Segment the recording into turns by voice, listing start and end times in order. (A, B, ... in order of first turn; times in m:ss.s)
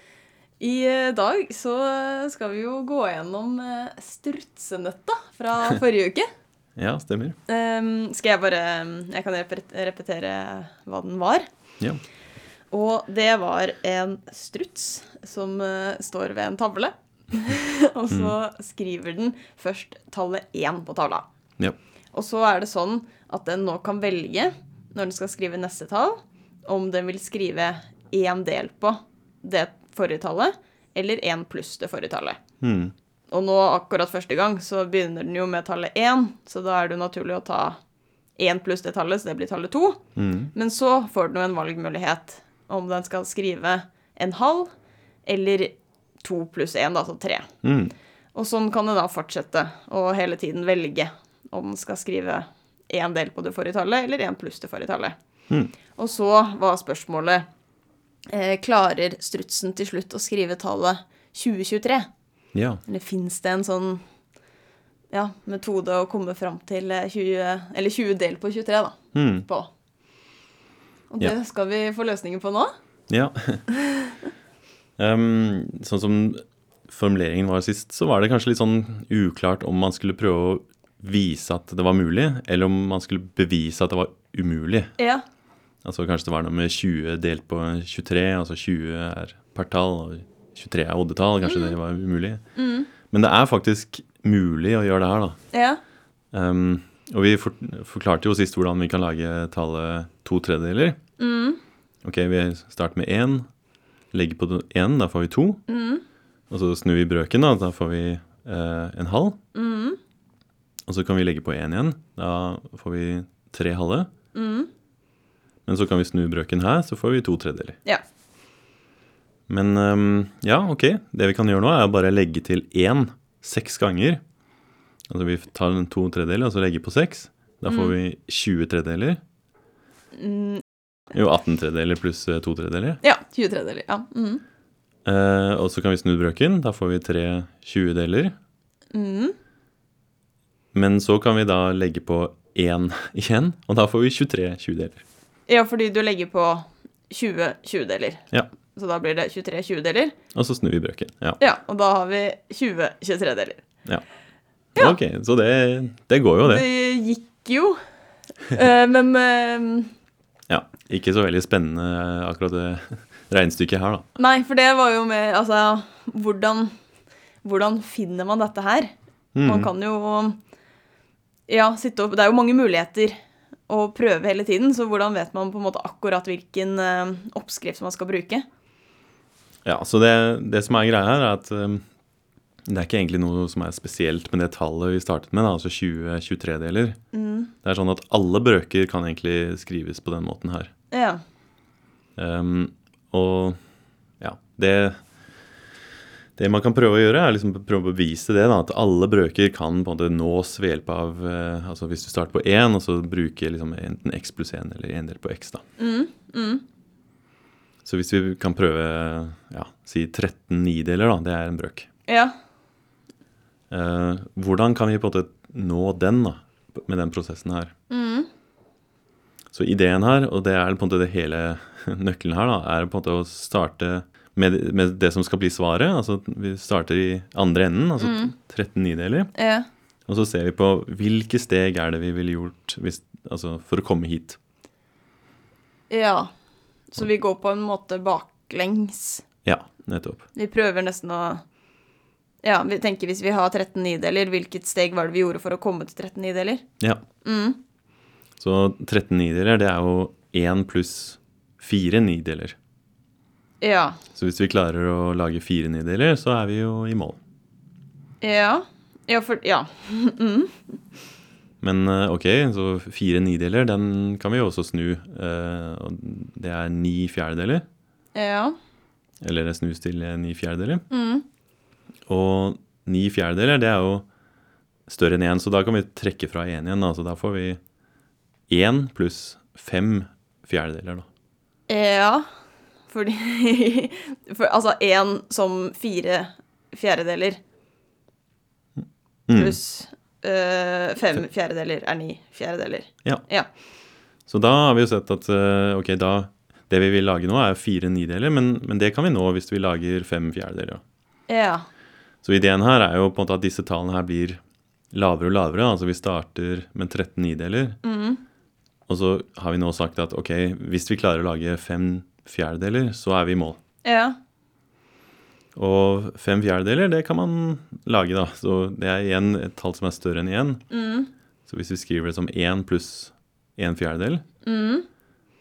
0:00.6-0:06.3 A
0:06.8-0:07.4 B
0:07.5-0:11.4 A
0:12.7-0:21.2 A
0:18.1-0:18.3 B
0:22.1-0:32.4 A
0:32.6-0:32.9 B
0:33.3-0:37.8 A
0:38.4-0:40.0 A
0:40.2-0:40.5 B
0:40.5-0:44.7 A
0:45.2-0:47.5 A
0:47.6-0:47.9 B
0:48.3-0:55.2 A
0:56.0-0:57.4 A
0:58.3-1:02.1 A
1:02.5-1:02.8 B
1:02.8-1:04.0 A
1:05.1-1:09.7 A
1:09.1-1:09.4 B
1:11.1-1:12.7 A
1:13.1-1:13.6 B
1:15.0-1:24.9 B
1:25.0-1:25.2 A
1:25.8-1:32.4 B
1:31.4-1:31.8 A
1:32.6-1:32.9 A
1:33.1-1:35.4 B
1:35.5-1:35.8 A
1:36.3-1:41.0 B
1:41.2-1:41.6 A
1:42.0-1:43.5 B
1:44.1-1:45.6 B
1:45.7-1:46.0 A
1:46.5-1:49.4 B
1:49.5-1:50.0 A
1:50.9-1:54.1 B
1:54.3-1:54.7 A
1:55.6-1:57.8 B
1:59.5-2:04.2 B
2:05.1-2:09.2 B
2:07.7-2:07.9 A
2:10.1-2:10.6 A
2:11.1-2:13.0 B
2:13.0-2:14.4 A
2:15.0-2:18.3 B
2:18.9-2:19.3 A
2:20.7-2:25.0 B
2:25.5-2:30.2 A
2:30.3-2:31.4 B
2:31.4-2:33.6 A
2:34.8-2:36.6 B
2:36.4-2:37.8 A
2:38.5-2:39.9 A
2:40.5-2:44.0 B
2:44.2-2:46.7 A
2:47.4-2:48.9 A
2:49.3-2:49.7 B
2:49.4-2:50.4 A
2:51.5-2:53.1 A
2:53.7-2:58.4 A
2:59.6-3:01.8 B
3:02.7-3:07.0 B
3:07.1-3:07.5 A
3:07.6-3:10.7 B
3:10.9-3:11.2 A
3:12.2-3:13.6 B
3:14.2-3:15.0 B
3:16.4-3:25.6 B
3:25.8-3:26.6 A
3:27.8-3:31.9 B
3:32.1-3:32.3 A
3:33.7-3:37.7 B
3:37.9-3:38.3 A
3:39.5-3:49.3 B
3:48.0-3:48.3 A
3:49.3-3:49.7 A
3:50.1-3:54.4 B
3:55.9-3:56.3 A
3:56.9-3:59.2 A
3:59.4-4:00.2 B
4:00.3-4:01.4 A
4:02.4-4:06.6 A
4:07.2-4:07.6 A
4:08.4-4:12.6 B
4:13.6-4:14.0 A
4:14.1-4:17.2 B
4:18.2-4:20.7 A
4:21.6-4:27.6 B
4:28.1-4:28.6 A
4:29.2-4:30.8 B
4:30.9-4:31.2 A
4:32.1-4:34.0 B
4:34.9-4:37.6 B
4:38.5-4:41.1 B
4:41.7-4:42.2 A
4:42.9-4:47.4 A
4:49.3-4:49.6 B
4:49.3-4:53.5 A
4:54.3-5:00.8 B
5:01.3-5:01.7 A
5:02.2-5:04.4 B
5:04.9-5:07.8 B
5:07.8-5:08.2 A
5:08.9-5:13.6 B
5:13.8-5:14.2 A
5:15.5-5:20.6 B
5:20.7-5:21.1 A
5:21.5-5:24.2 B
5:24.4-5:24.9 A